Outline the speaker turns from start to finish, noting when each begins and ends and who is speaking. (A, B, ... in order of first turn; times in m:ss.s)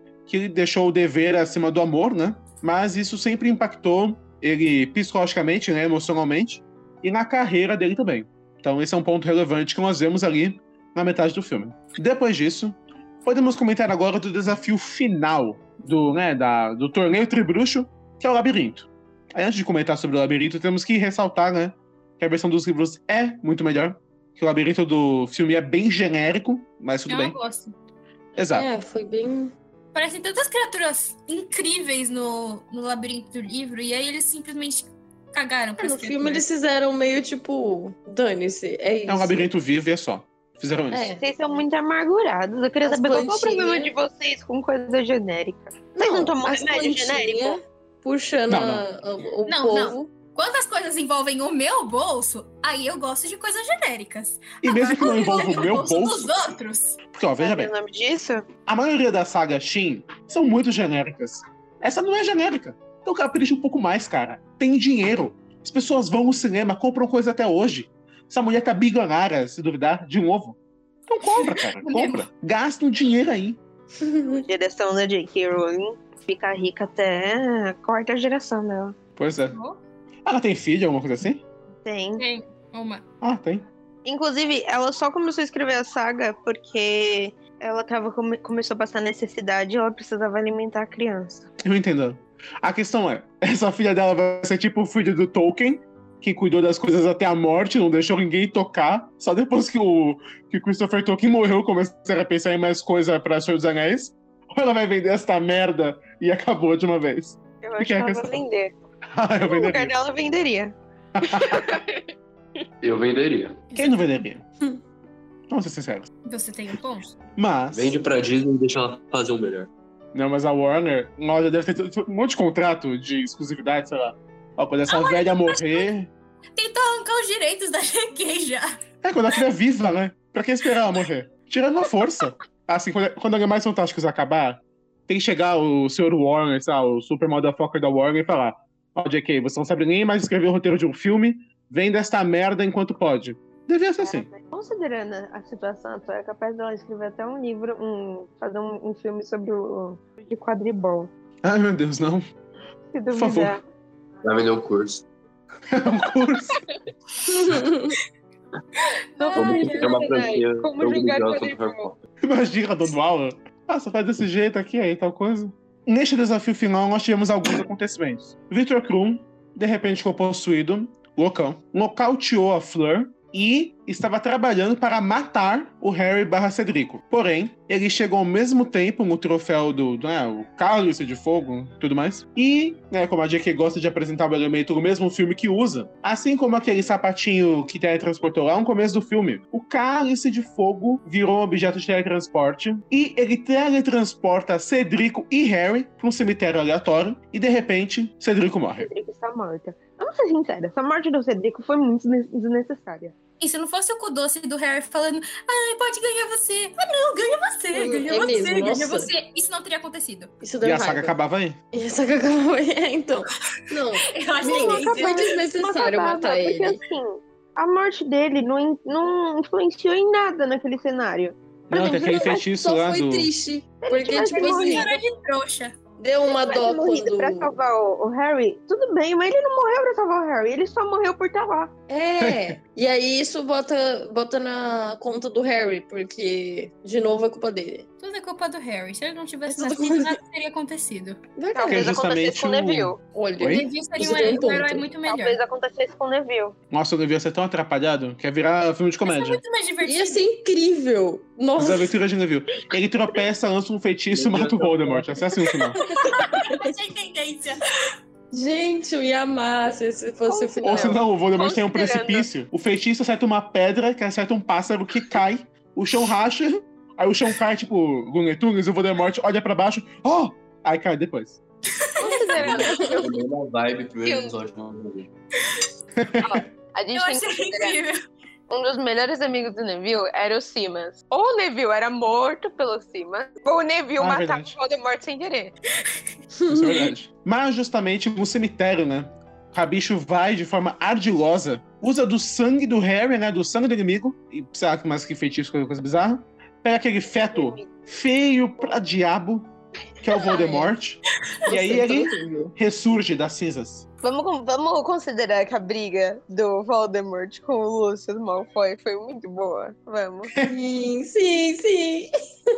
0:00.3-0:27.4 A
0:27.1-0:27.7 B
0:28.4-0:28.7 A
0:28.5-0:29.5 C
0:29.9-0:36.4 B
0:35.8-0:39.5 C
0:39.1-0:41.1 A
0:40.9-0:41.2 C
0:41.2-0:47.6 D
0:42.8-0:43.9 C
0:45.9-0:50.1 C
0:48.5-0:48.8 A
0:49.4-0:57.0 B
0:54.6-0:56.3 A
0:57.1-0:57.7 A
0:57.4-0:58.4 D
0:58.7-1:10.6 A
1:11.1-1:13.6 A
1:11.4-1:12.2 B
1:14.0-1:14.4 C
1:14.4-1:18.9 D
1:19.2-1:19.6 A
1:19.5-1:19.8 B
1:20.2-1:21.4 A
1:21.8-1:22.2 D
1:22.2-1:23.0 B
1:23.2-1:23.6 A
1:24.0-1:31.5 D
1:31.6-1:48.4 A
1:47.6-1:48.8 D
1:49.1-1:49.9 A
1:49.4-1:50.8 D
1:51.2-1:51.7 A
1:51.3-1:51.7 D
1:52.8-1:53.6 E
1:53.7-1:54.0 B
1:53.7-1:54.4 A
1:55.5-1:56.1 A
1:56.2-1:57.2 B
1:57.4-1:58.0 A
1:57.7-1:59.7 E
2:00.1-2:06.1 A
2:04.9-2:05.9 B
2:06.6-2:08.8 B
2:09.0-2:24.3 A
2:24.0-2:31.1 D
2:31.4-2:32.2 A
2:32.9-2:33.6 D
2:33.1-2:33.6 A
2:34.2-2:35.0 E
2:35.7-2:36.6 A
2:37.2-2:38.0 C
2:39.2-2:40.1 B
2:39.2-2:41.9 D
2:39.3-2:42.0 E
2:39.4-2:40.4 C
2:42.2-3:18.9 A
3:18.8-3:23.2 D
3:23.4-3:30.3 B
3:27.7-3:29.1 C
3:30.4-3:31.1 C
3:30.6-3:31.6 A
3:31.7-3:36.8 C
3:34.1-3:35.4 B
3:34.4-3:42.4 D
3:41.7-3:43.3 A
3:42.5-3:45.0 C
3:43.8-3:45.0 D
3:44.3-3:45.7 B
3:46.0-3:47.5 C
3:46.3-3:51.7 D
3:51.9-3:57.8 C
3:52.2-3:52.6 A
3:58.0-4:01.2 B
3:59.5-4:00.2 C
4:01.4-4:01.9 C
4:01.5-4:03.0 D
4:01.7-4:03.7 A
4:03.1-4:04.8 C
4:03.4-4:05.4 B
4:05.0-4:06.6 D
4:06.7-4:09.4 A
4:09.0-4:10.2 B
4:09.8-4:11.9 C
4:11.6-4:15.8 A
4:14.1-4:15.1 E
4:15.7-4:16.7 C
4:15.9-4:17.7 B
4:18.3-4:21.0 C
4:20.3-4:22.3 D
4:20.6-4:31.4 A
4:31.8-4:32.7 B
4:32.0-4:33.2 D
4:32.0-4:33.0 C
4:32.3-4:35.1 E
4:34.0-4:34.4 D
4:36.0-4:36.5 A
4:36.2-4:37.8 D
4:36.9-4:38.0 B
4:38.5-4:45.5 D
4:44.0-4:44.6 A
4:46.4-4:46.9 C
4:46.5-4:59.5 A
4:57.3-4:57.7 D
5:00.0-5:03.8 A
5:00.2-5:00.6 D
5:01.5-5:02.5 C
5:04.0-5:10.3 D
5:10.4-5:12.1 C